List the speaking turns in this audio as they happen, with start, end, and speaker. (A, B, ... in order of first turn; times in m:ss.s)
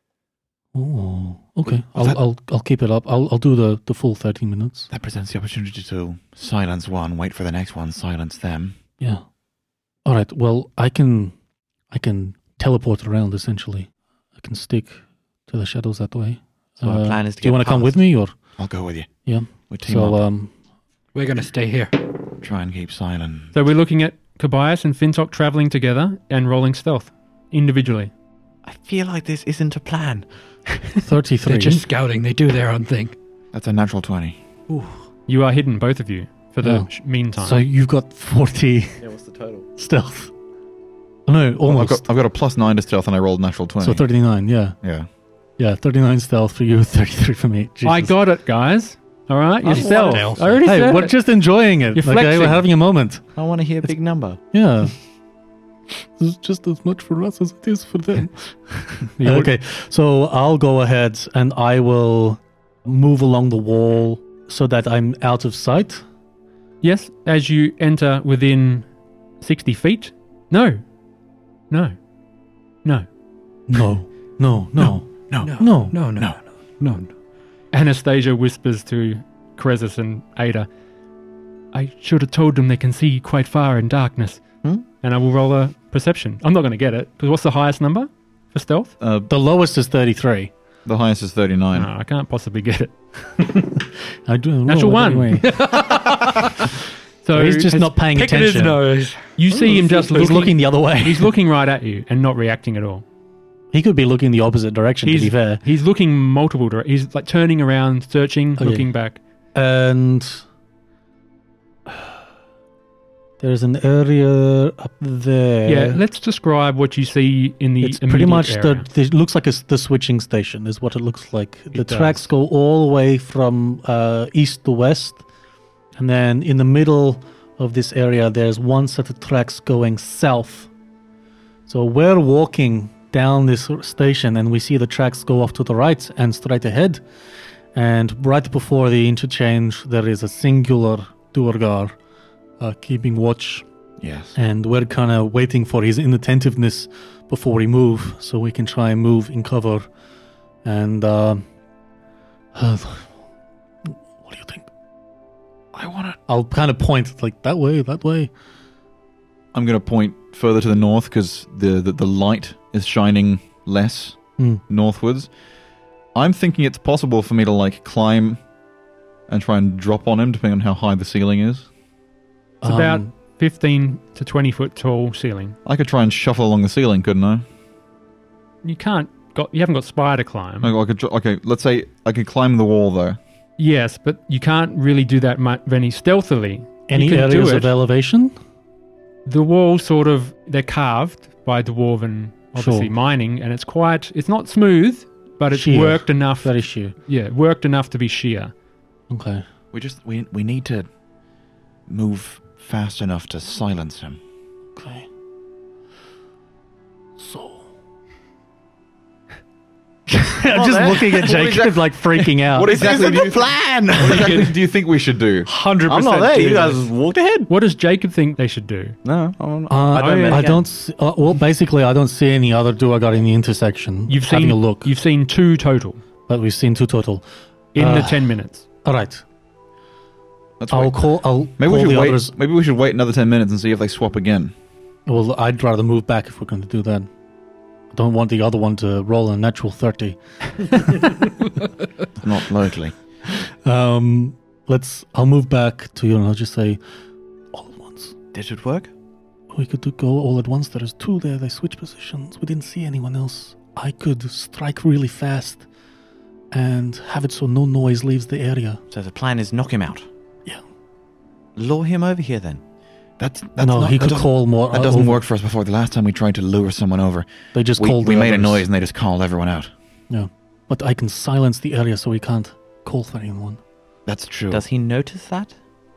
0:00.7-0:04.9 A
0:04.9-0:08.8 B
0:10.0-0:11.3 A
0:11.9-0:18.3 A
0:16.8-0:18.0 C
0:18.6-0:19.1 B
0:19.2-0:20.5 A
0:19.7-0:20.2 B
0:21.1-0:22.0 D
0:22.4-0:23.5 B
0:23.5-0:28.1 E
0:28.6-0:30.2 C
0:31.0-0:31.8 A
0:31.4-0:33.2 D
0:33.5-0:34.4 B
0:35.3-0:37.6 E
0:36.6-0:39.0 A
0:39.0-0:39.6 C
0:39.8-0:40.3 A
0:41.2-0:42.1 A
0:41.7-0:44.0 B
0:43.8-0:44.8 A
0:44.8-0:45.1 B
0:45.6-0:48.1 A
0:47.8-0:51.2 E
0:49.6-0:50.5 D
0:49.7-0:50.6 C
0:50.6-0:53.2 A
0:51.9-0:52.6 E
0:53.4-0:54.4 C
0:54.5-0:55.0 A
0:55.9-1:06.0 A
0:59.2-0:59.5 E
1:06.8-1:08.9 E
1:09.4-1:10.8 E
1:11.7-1:12.0 E
1:13.7-1:16.0 A
1:15.4-1:17.1 D
1:17.7-1:20.7 E
1:21.7-1:24.4 E
1:25.0-1:28.9 E
1:29.0-1:29.3 B
1:29.3-1:30.5 A
1:30.8-1:31.9 B
1:31.7-1:32.9 E
1:34.2-1:35.9 A
1:34.6-1:35.5 E
1:35.4-1:36.6 D
1:37.2-1:37.8 E
1:37.3-1:38.8 A
1:37.7-1:40.4 D
1:39.4-1:43.0 E
1:40.0-1:41.3 A
1:43.7-1:45.6 A
1:45.0-1:49.2 E
1:48.6-1:48.9 A
1:49.5-1:50.4 A
1:53.4-1:56.0 A
1:55.6-1:58.9 E
1:57.8-2:05.2 A
2:01.7-2:02.3 E
2:06.0-2:10.7 A
2:11.7-2:17.0 A
2:17.7-2:21.9 A
2:22.6-2:23.6 A
2:24.0-2:24.4 B
2:24.3-2:29.9 A
2:30.6-2:31.4 A
2:32.5-2:33.1 A
2:34.2-2:34.7 A
2:35.7-2:36.2 B
2:36.3-2:38.3 A
2:39.5-2:45.3 B
2:46.1-2:48.4 B
2:49.3-2:51.7 B
2:52.6-2:53.1 A
2:52.6-2:55.6 E
2:55.6-2:57.4 B
2:58.6-3:00.7 E
3:00.6-3:03.2 B
3:03.6-3:07.7 E
3:06.9-3:08.3 A
3:09.2-3:18.5 E
3:12.6-3:12.9 A
3:15.5-3:16.9 A
3:19.1-3:19.4 A
3:19.7-3:20.9 B
3:21.9-3:24.2 B
3:24.8-3:25.1 A
3:27.2-3:27.6 A
3:30.1-3:32.7 A
3:30.5-3:31.6 C
3:31.2-3:31.8 B
3:32.5-3:35.5 B
3:32.6-3:34.5 C
3:35.4-3:36.9 D
3:35.8-3:37.5 C
3:37.5-3:39.0 E
3:39.0-3:40.6 C
3:39.7-3:44.9 A
3:39.9-3:40.5 E
3:44.1-3:46.0 E
3:46.3-3:47.2 A
3:47.7-3:48.6 E
3:47.8-3:48.3 A
3:48.8-3:49.2 A
3:50.6-3:50.9 B
3:50.7-3:52.3 A
3:51.6-3:54.5 B
3:55.0-3:57.1 A
3:57.9-4:01.3 A
4:02.2-4:02.9 B
4:03.3-4:06.8 A
4:07.5-4:08.1 A
4:08.3-4:08.9 C
4:09.5-4:15.6 A
4:16.5-4:18.8 A
4:18.9-4:20.0 C
4:21.6-4:22.6 C
4:23.2-4:29.7 B
4:23.6-4:25.2 A
4:27.5-4:28.6 A
4:30.1-4:33.6 A
4:34.0-4:34.6 B
4:34.5-4:35.5 C